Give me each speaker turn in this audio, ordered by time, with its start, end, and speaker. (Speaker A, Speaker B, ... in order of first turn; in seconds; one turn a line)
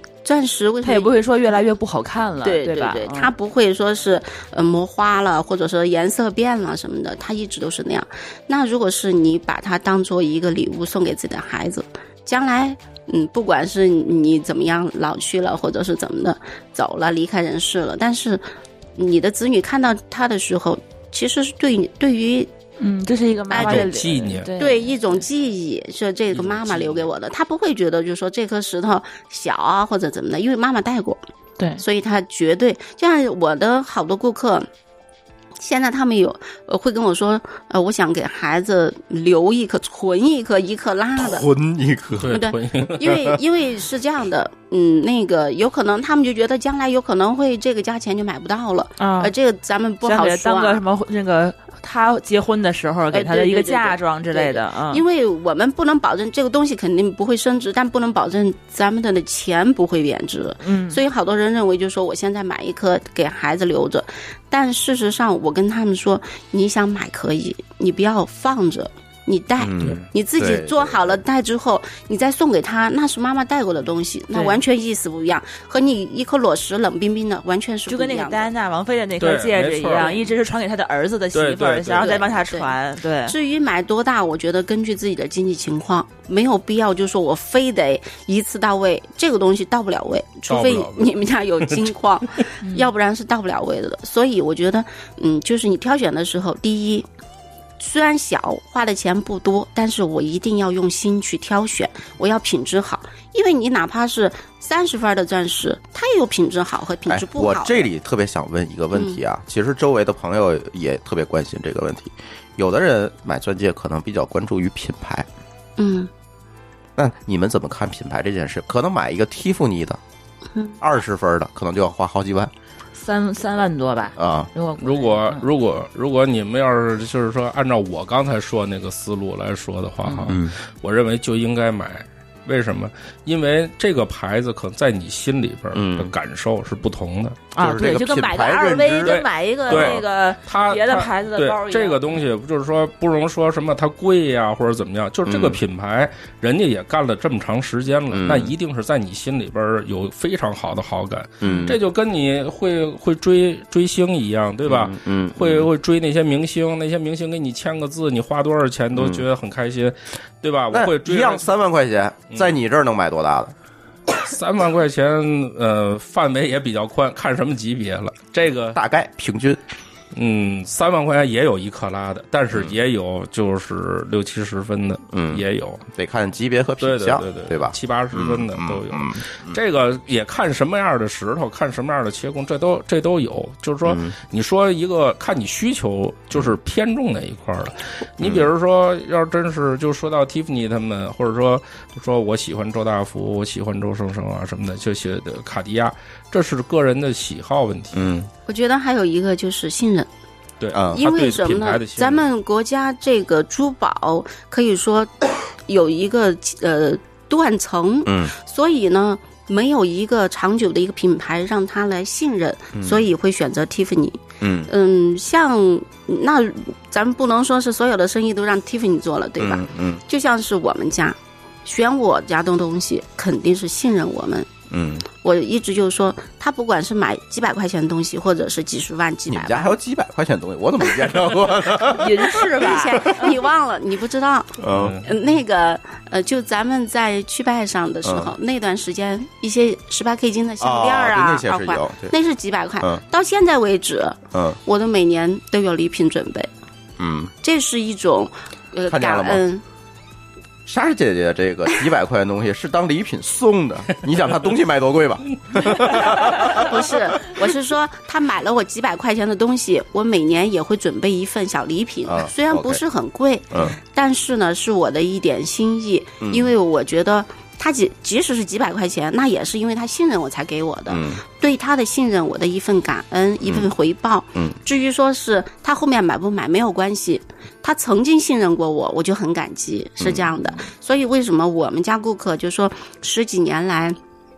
Speaker A: 0.2-1.1
Speaker B: 0.8-3.3
Speaker A: 2.4-18.4
Speaker A: 19.0-22.5
Speaker B: 22.8-25.0
Speaker A: 23.5-24.0
Speaker C: 23.6-24.5
Speaker A: 24.6-31.2
Speaker C: 26.3-27.1
Speaker A: 31.8-34.7
Speaker A: 35.6-41.5
Speaker D: 41.2-42.3
Speaker C: 42.2-43.3
Speaker A: 42.3-50.8
Speaker B: 49.0-49.3
Speaker B: 50.0-55.0
Speaker A: 53.1-78.5
Speaker B: 60.6-61.0
Speaker D: 69.6-71.1
Speaker B: 74.3-74.6
Speaker B: 77.9-83.4
Speaker C: 79.2-80.1
Speaker C: 81.3-82.2
Speaker A: 82.0-82.7
Speaker A: 83.2-97.1
Speaker C: 90.5-91.9
Speaker B: 92.6-92.9
Speaker A: 97.8-107.9
Speaker D: 107.1-115.3
Speaker A: 108.9-109.2
Speaker A: 115.8-116.1
Speaker D: 117.0-120.0
Speaker D: 120.8-122.5
Speaker B: 123.0-125.5
Speaker D: 124.2-124.5
Speaker C: 124.8-137.5
Speaker B: 130.1-130.3
Speaker D: 130.3-130.5
Speaker D: 135.7-136.1
Speaker B: 137.5-142.2
Speaker D: 137.6-140.0
Speaker C: 139.0-161.5
Speaker D: 145.3-145.6
Speaker D: 148.1-148.5
Speaker D: 151.4-151.8
Speaker D: 154.7-155.7
Speaker D: 158.9-159.2
Speaker D: 160.7-163.5
Speaker C: 162.3-162.6
Speaker C: 164.2-168.8
Speaker D: 168.7-169.6
Speaker C: 170.1-175.8
Speaker D: 175.1-175.4
Speaker D: 175.9-179.6
Speaker C: 176.8-198.1
Speaker D: 183.9-184.2
Speaker D: 188.2-188.5
Speaker D: 197.9-198.3
Speaker A: 198.5-200.1
Speaker C: 200.6-202.3
Speaker A: 200.9-224.5
Speaker D: 208.1-208.3
Speaker D: 212.8-213.0
Speaker D: 214.4-214.7
Speaker D: 219.4-220.0
Speaker D: 224.7-225.1
Speaker A: 225.1-229.8
Speaker D: 229.3-232.2
Speaker B: 231.9-233.4
Speaker A: 232.3-246.5
Speaker D: 234.6-235.0
Speaker C: 234.7-235.1
Speaker D: 238.0-238.3
Speaker D: 240.6-242.1
Speaker D: 247.0-247.3
Speaker A: 247.4-249.6
Speaker D: 248.9-249.4
Speaker D: 250.7-256.7
Speaker A: 256.3-284.0
Speaker D: 262.1-262.8
Speaker D: 266.2-266.5
Speaker D: 270.9-271.2
Speaker D: 280.0-280.3